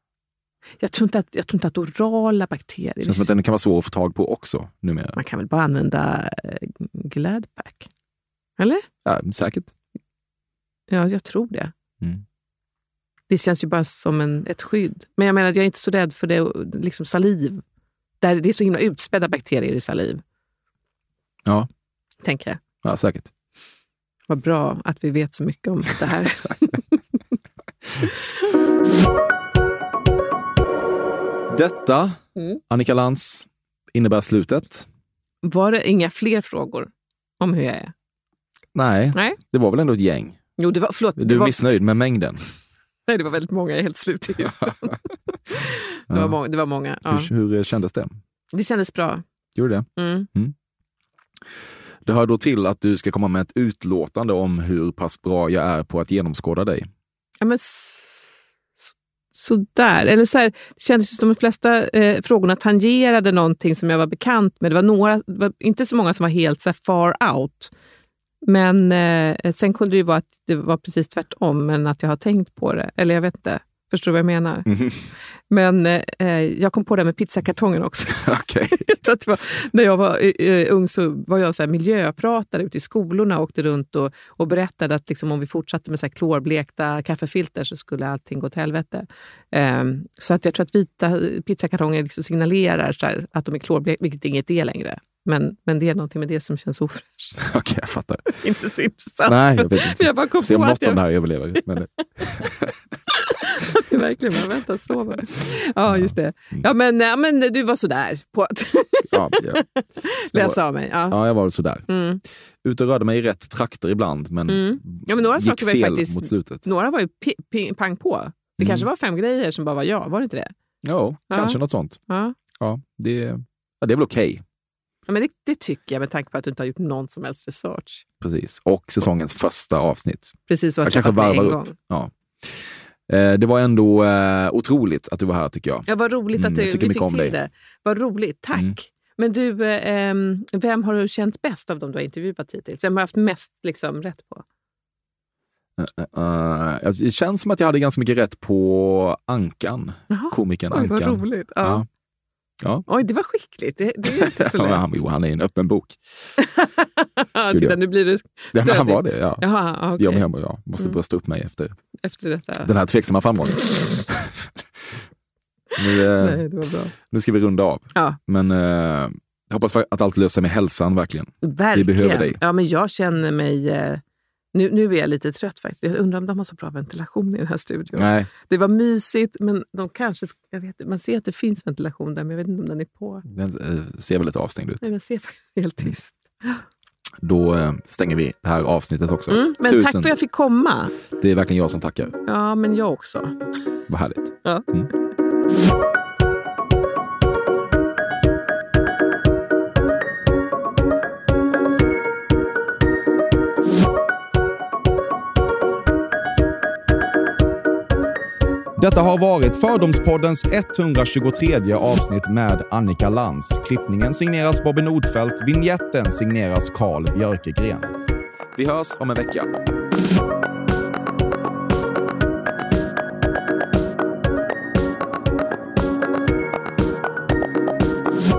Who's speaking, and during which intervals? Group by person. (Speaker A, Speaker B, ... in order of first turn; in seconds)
Speaker A: 0.8-3.3, 5.2-7.9, 8.6-8.9, 10.9-11.7, 13.3-17.6, 18.2-20.2, 22.2-22.6, 24.3-27.0, 35.4-37.9, 40.6-41.6, 43.1-45.0, 45.5-47.3, 48.5-49.2, 50.0-50.3, 57.4-58.3, 58.8-67.7, 68.4-74.7, 75.5-97.4, 98.4-101.0, 103.1-111.2, 111.9-112.2, 114.5-120.5, 121.3-121.6, 122.1-122.4, 125.1-128.1, 130.5-131.7, 135.9-144.4, 150.1-151.8, 152.9-154.8, 156.4-160.3, 162.0-162.7, 166.2-166.9, 171.4-174.0, 174.5-183.2, 184.8-186.6, 189.3-190.9, 192.3-193.3
Speaker B: 3.0-5.2, 9.1-9.7, 22.8-23.3, 31.5-34.9, 38.7-40.4, 41.2-42.4, 46.1-46.4, 47.0-48.2, 49.5-50.5, 52.0-56.9, 74.7-75.0, 78.2-78.9, 97.4-98.4, 99.2-102.7, 105.9-106.7, 109.1-109.6, 110.3-111.9, 112.6-116.7, 118.6-118.9, 120.8-122.0, 122.6-124.4, 128.2-137.4, 145.8-151.9, 152.6-152.9, 154.1-156.0, 157.5-157.8, 158.5-161.8, 162.6-164.6, 165.8-172.4, 177.9-178.3, 183.3-184.9, 187.2-190.1, 191.2-192.1, 193.9-194.9, 208.8-217.9, 218.6-219.5